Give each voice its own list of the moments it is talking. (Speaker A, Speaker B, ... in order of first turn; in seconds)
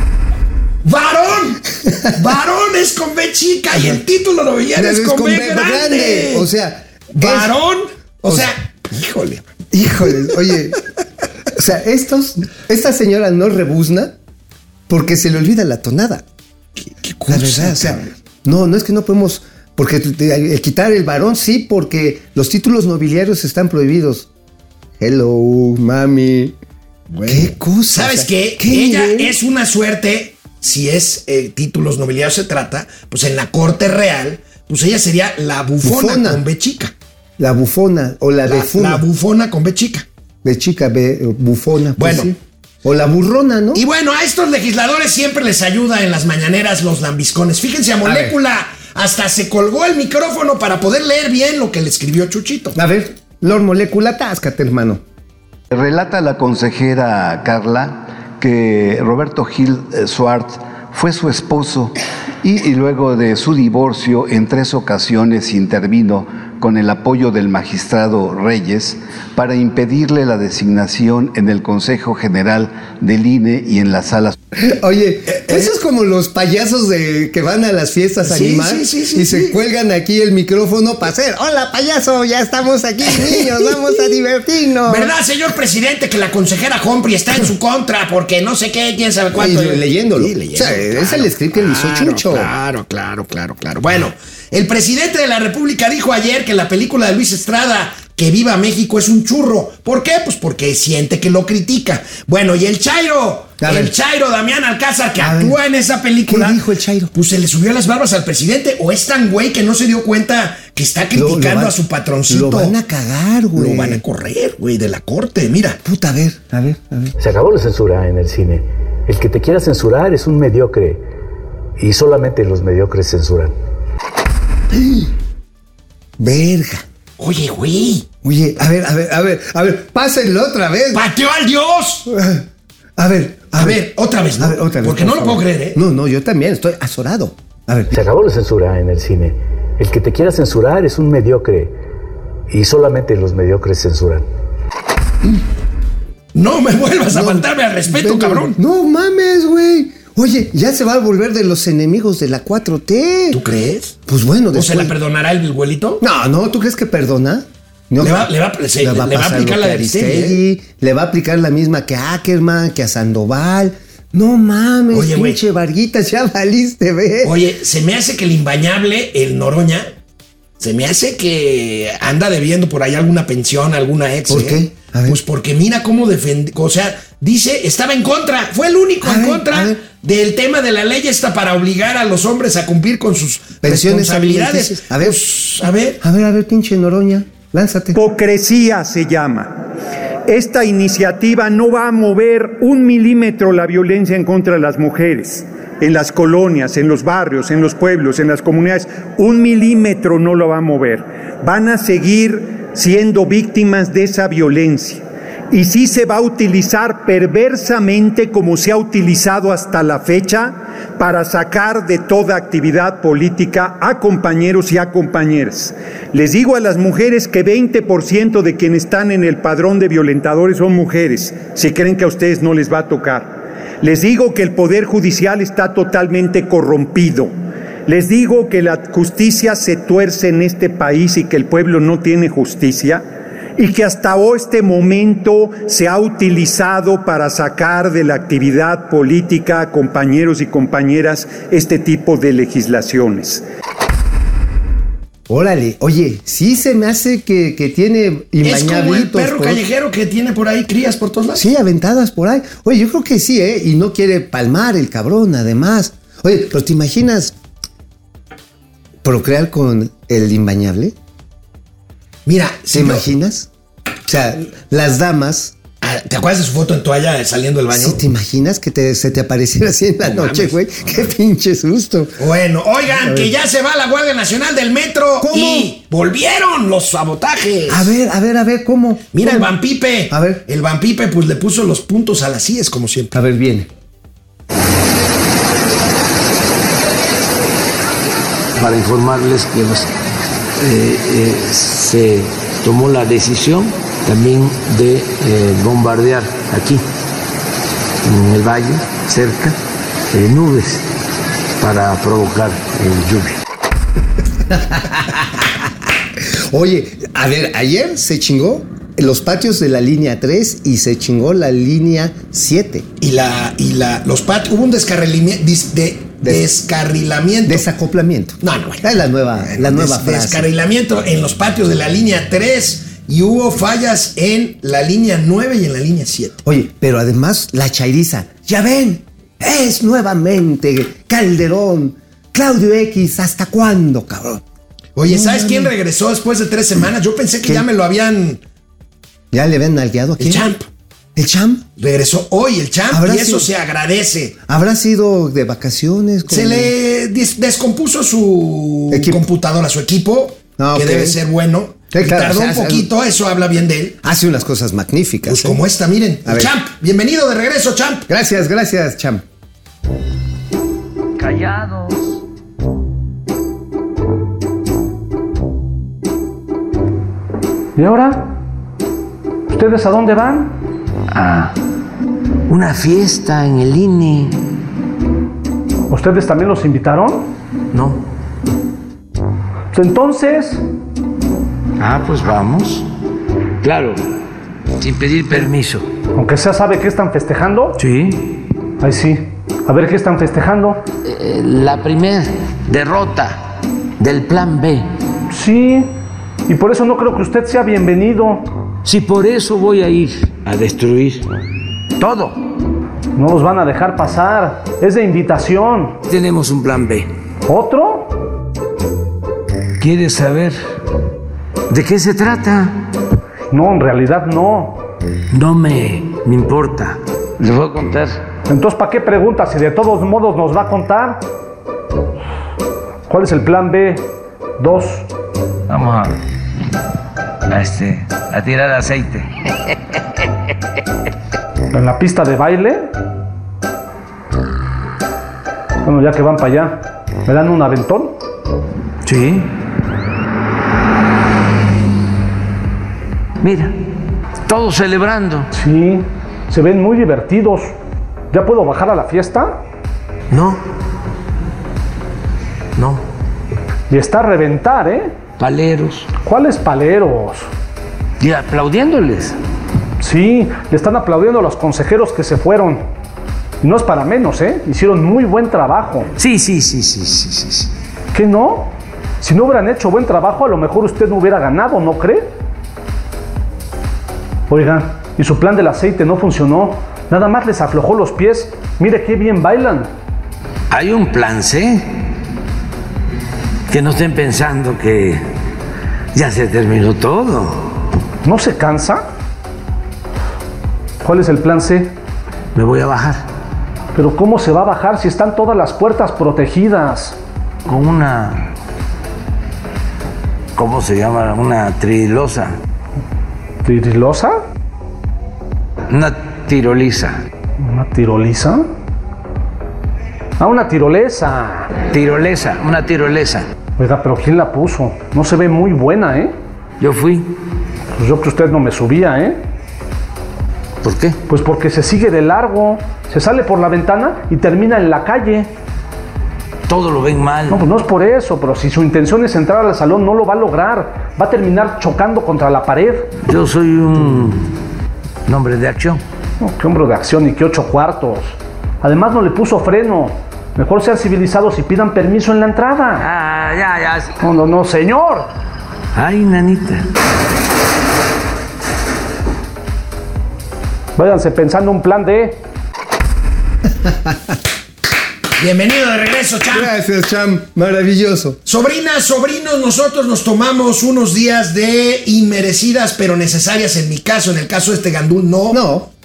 Speaker A: 0.8-6.5, 7.1-9.5, 16.8-18.1, 27.1-36.9, 38.5-40.0, 42.0-42.3, 43.7-52.8, 75.3-75.7, 78.2-79.6, 83.1-83.8, 84.8-112.8, 113.5-115.8, 127.2-128.1, 130.9-132.1, 133.6-135.8, 146.3-148.6, 153.3-153.9, 154.5-156.0, 158.0-160.4, 164.9-165.4, 167.2-169.9, 170.6-186.0, 248.4-251.4, 262.2-263.0, 265.8-268.0, 270.0-270.6, 272.2-277.9, 279.1-283.2, 313.0-317.7, 318.4-326.4, 334.9-338.4, 340.2-340.6, 341.8-344.4, 346.3-354.0, 355.2-358.1, 450.3-450.6, 452.8-453.0, 555.4-556.7, 558.5-565.6
Speaker B: 4.7-7.6, 9.7-10.8, 11.5-14.1, 14.9-16.2, 17.3-24.3, 25.0-26.5, 27.3-29.4, 35.8-36.4, 37.4-39.0, 40.4-43.8, 48.0-48.3, 52.7-55.0, 74.5-85.1, 89.3-92.5, 103.6-103.9, 105.2-105.6, 106.2-107.1, 111.1-114.0, 115.8-117.1, 124.7-125.1, 126.2-126.8, 128.2-131.0, 132.1-132.4, 133.0-133.8, 134.4-138.0, 147.1-153.4, 154.1-154.9, 156.0-167.4, 174.3-175.2, 179.0-179.8, 183.6-185.2, 186.0-188.0, 245.3-249.6, 251.3-257.3, 259.0-260.9, 262.7-263.5, 264.1-265.5, 267.7-272.2, 272.9-273.3, 275.2-275.7, 277.7-279.5, 280.1-280.4, 283.1-283.7, 304.5-305.5, 306.2-312.9, 316.2-316.5, 317.4-320.5, 326.4-334.4, 335.1-335.7, 339.3-340.4, 341.1-341.6, 342.9-343.5, 344.5-346.7, 348.9-349.3, 350.6-351.2, 351.9-352.9, 354.0-355.6, 356.2-356.5, 358.1-359.2, 556.5-558.4, 565.5-565.9
Speaker C: 55.7-74.3
Speaker D: 117.2-121.0, 121.8-123.5, 137.9-141.7, 142.5-144.2
Speaker E: 187.9-189.6, 190.2-227.3, 227.9-233.0, 233.6-243.4
Speaker F: 288.6-289.9, 290.6-296.8, 298.0-299.6, 300.1-300.8, 301.6-303.4, 361.2-362.1, 371.1-371.5, 372.5-374.4, 377.7-378.0, 381.8-382.8, 383.6-384.0, 384.8-385.8, 387.8-388.3, 391.0-393.4, 394.0-394.9, 398.8-401.2, 402.0-402.4, 406.1-407.1, 409.8-410.6, 411.7-412.7, 415.3-418.2, 425.7-426.2, 427.5-429.3, 439.0-439.5, 443.4-443.7, 444.4-445.5, 455.4-456.1, 458.2-459.4, 466.2-467.7, 480.7-481.9, 483.7-485.2, 486.1-487.7, 492.5-493.2, 497.6-498.5, 500.6-502.6, 505.9-507.2, 511.9-513.5, 516.8-517.2, 520.8-521.2, 526.7-527.6, 533.2-534.5, 535.3-536.0, 543.0-544.1, 545.9-546.9
Speaker G: 367.8-368.3, 369.5-370.6, 375.9-377.3, 379.7-380.6, 386.1-387.8, 388.8-390.8, 395.3-395.9, 396.5-398.5, 403.1-406.0, 407.5-408.1, 413.5-414.8, 418.5-421.2, 423.1-424.1, 424.6-425.1, 431.7-432.9, 435.8-438.2, 445.5-447.7, 448.3-449.6, 453.9-455.1, 456.2-457.5, 460.0-462.8, 463.6-466.1, 468.1-472.3, 474.5-479.9, 488.2-489.0, 491.0-491.9, 493.9-497.1, 503.6-504.4, 507.6-508.6, 510.4-511.8, 513.8-516.3, 517.9-519.4, 521.3-525.5, 527.5-533.1, 536.4-543.0, 544.2-545.3, 551.0-552.4